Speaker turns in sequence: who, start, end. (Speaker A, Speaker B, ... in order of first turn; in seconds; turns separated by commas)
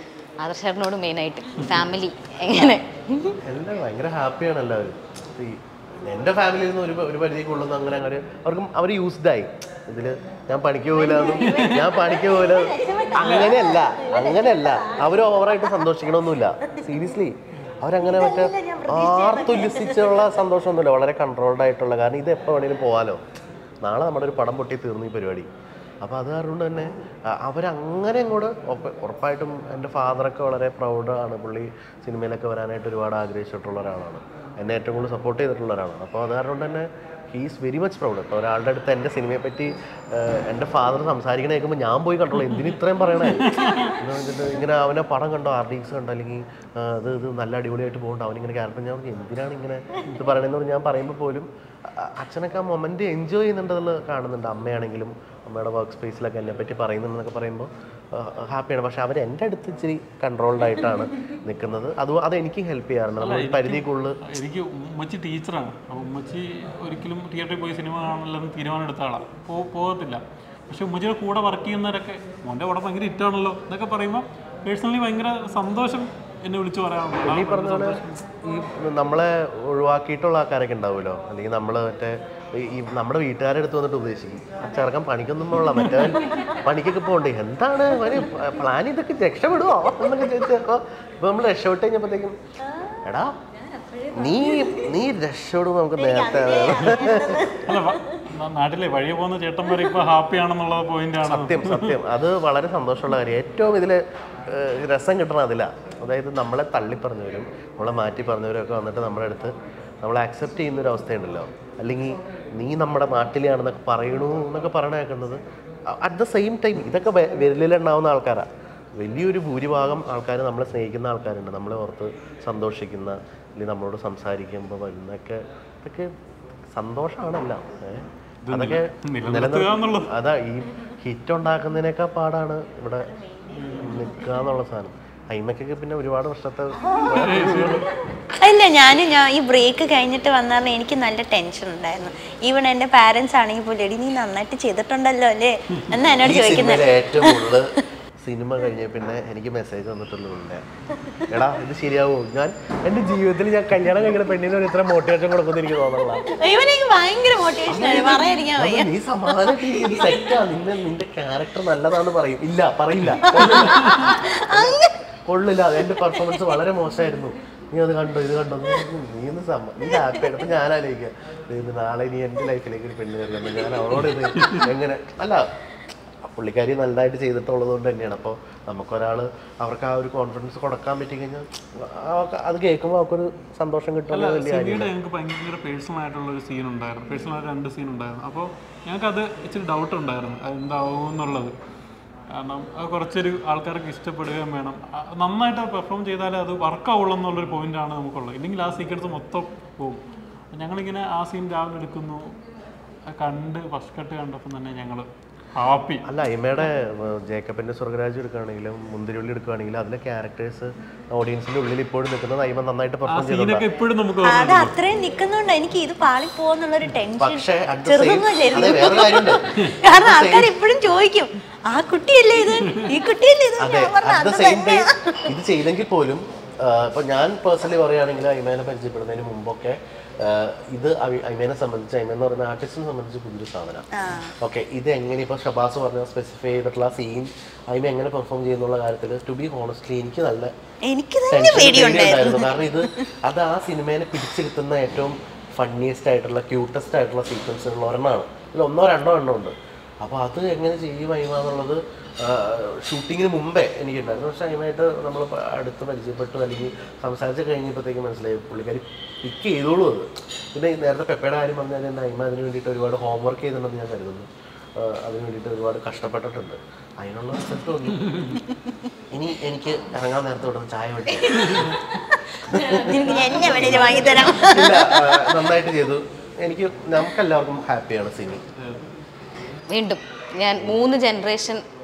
Speaker A: 0.4-3.3, Speaker B: 3.5-23.2, Speaker C: 10.9-15.9, Speaker D: 11.4-11.9, Speaker D: 13.2-13.6, Speaker C: 16.6-17.0, Speaker C: 18.0-20.4, Speaker B: 23.8-25.5, Speaker B: 26.0-64.2, Speaker D: 43.2-43.9, Speaker D: 63.2-78.2, Speaker B: 77.2-92.3, Speaker C: 86.2-86.6, Speaker C: 92.7-93.0, Speaker B: 93.0-93.3, Speaker C: 93.9-94.9, Speaker B: 94.2-97.5, Speaker C: 96.0-97.9, Speaker D: 97.6-102.0, Speaker B: 101.2-126.1, Speaker B: 126.7-133.1, Speaker D: 128.4-130.1, Speaker C: 133.2-134.0, Speaker D: 133.5-134.3, Speaker B: 133.8-137.8, Speaker D: 137.1-137.9, Speaker C: 138.4-147.5, Speaker B: 146.2-150.6, Speaker B: 151.3-156.3, Speaker C: 156.3-160.3, Speaker B: 157.6-175.4, Speaker C: 163.2-164.9, Speaker D: 163.3-164.0, Speaker C: 165.8-166.6, Speaker C: 169.8-170.3, Speaker B: 176.2-184.9, Speaker D: 184.1-191.5, Speaker D: 192.3-200.0, Speaker D: 200.5-202.2, Speaker D: 203.1-206.1, Speaker B: 206.0-213.7, Speaker D: 213.1-214.8, Speaker C: 214.2-225.3, Speaker B: 217.2-220.6, Speaker D: 222.4-222.9, Speaker B: 223.6-233.8, Speaker C: 233.9-234.3, Speaker B: 234.4-240.5, Speaker C: 240.8-243.0, Speaker B: 241.3-268.1, Speaker D: 268.0-268.4, Speaker C: 268.4-268.7, Speaker B: 269.1-271.6, Speaker C: 271.2-275.2, Speaker D: 271.4-271.8, Speaker B: 272.4-278.4, Speaker D: 273.4-274.2, Speaker D: 278.6-278.9, Speaker A: 279.7-281.6